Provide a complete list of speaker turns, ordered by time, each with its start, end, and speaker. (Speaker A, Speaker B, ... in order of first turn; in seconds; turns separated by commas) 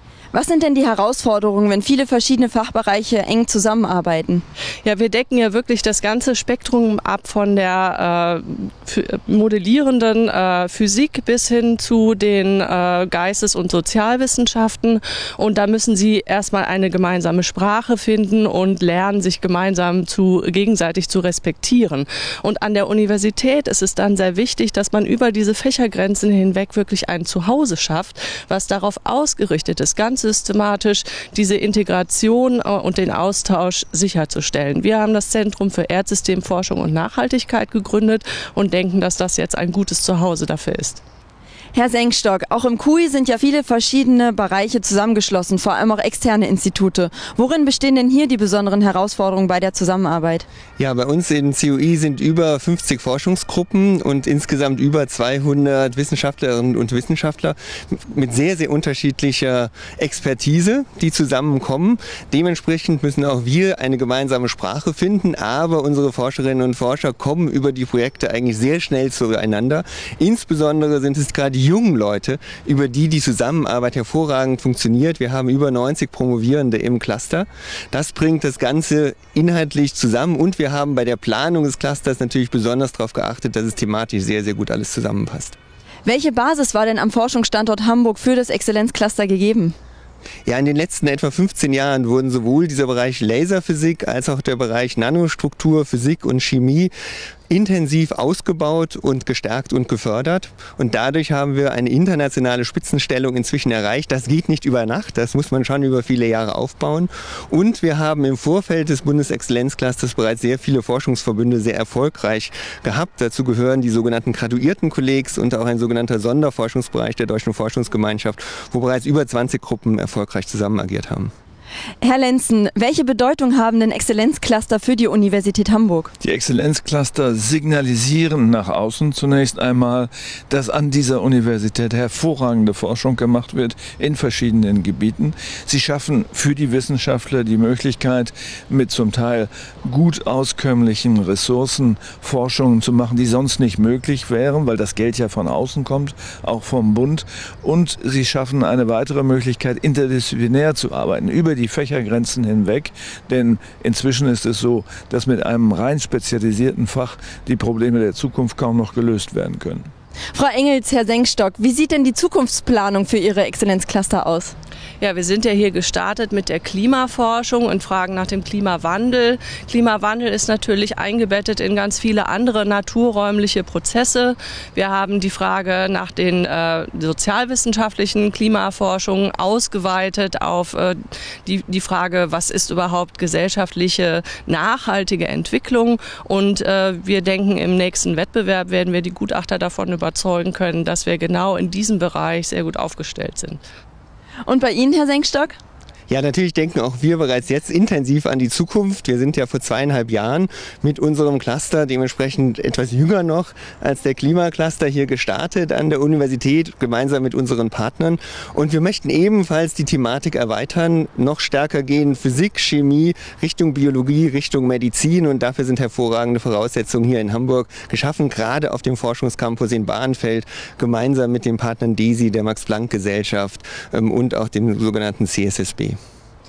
Speaker A: 0.3-4.4, Speaker B: 4.8-41.0, Speaker A: 41.7-50.5, Speaker C: 50.8-85.6, Speaker A: 86.0-89.8, Speaker C: 90.5-96.9, Speaker C: 97.5-121.3, Speaker A: 122.0-126.1, Speaker D: 126.2-159.9, Speaker A: 160.3-164.5, Speaker B: 165.0-193.6, Speaker A: 194.4-195.6, Speaker C: 196.1-226.0